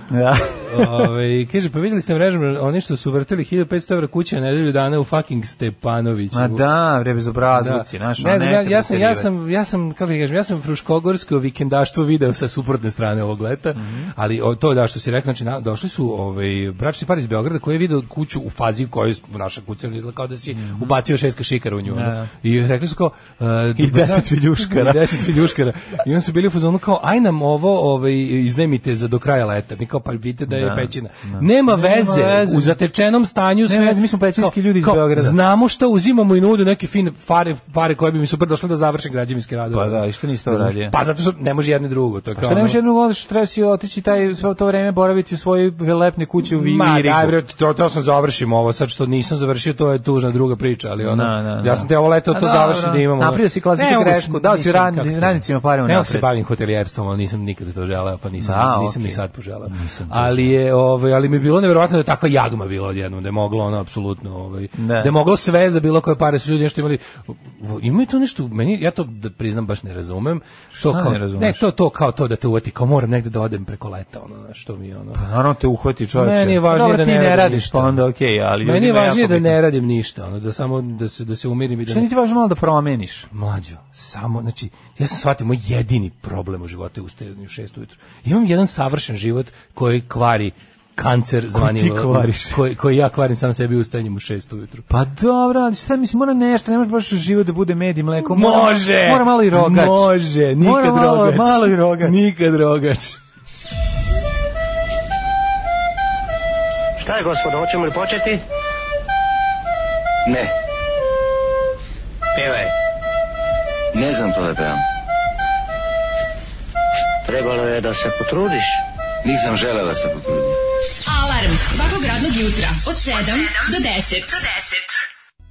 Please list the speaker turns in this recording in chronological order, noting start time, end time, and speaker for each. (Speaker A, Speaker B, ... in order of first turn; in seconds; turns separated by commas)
Speaker A: 0.1-1.1, Speaker B: 0.6-6.6, Speaker A: 6.3-9.3, Speaker B: 7.6-42.8, Speaker A: 13.8-14.1, Speaker A: 20.5-20.9, Speaker A: 21.9-22.3, Speaker A: 23.8-25.5, Speaker A: 30.5-32.8, Speaker A: 33.7-35.4, Speaker A: 39.7-41.0, Speaker A: 42.4-47.4, Speaker B: 46.5-75.2, Speaker A: 51.0-56.3, Speaker A: 58.4-60.5, Speaker A: 64.8-65.1, Speaker A: 70.8-71.7, Speaker A: 75.2-79.6, Speaker B: 76.2-78.0, Speaker B: 78.6-82.1, Speaker A: 81.9-83.3, Speaker B: 83.3-94.9, Speaker A: 91.5-92.6, Speaker A: 94.9-102.2, Speaker B: 98.2-103.2, Speaker C: 107.0-108.4, Speaker D: 110.3-110.5, Speaker C: 112.3-112.7, Speaker D: 113.9-114.8, Speaker C: 117.2-118.8, Speaker D: 119.2-120.6, Speaker E: 121.1-125.0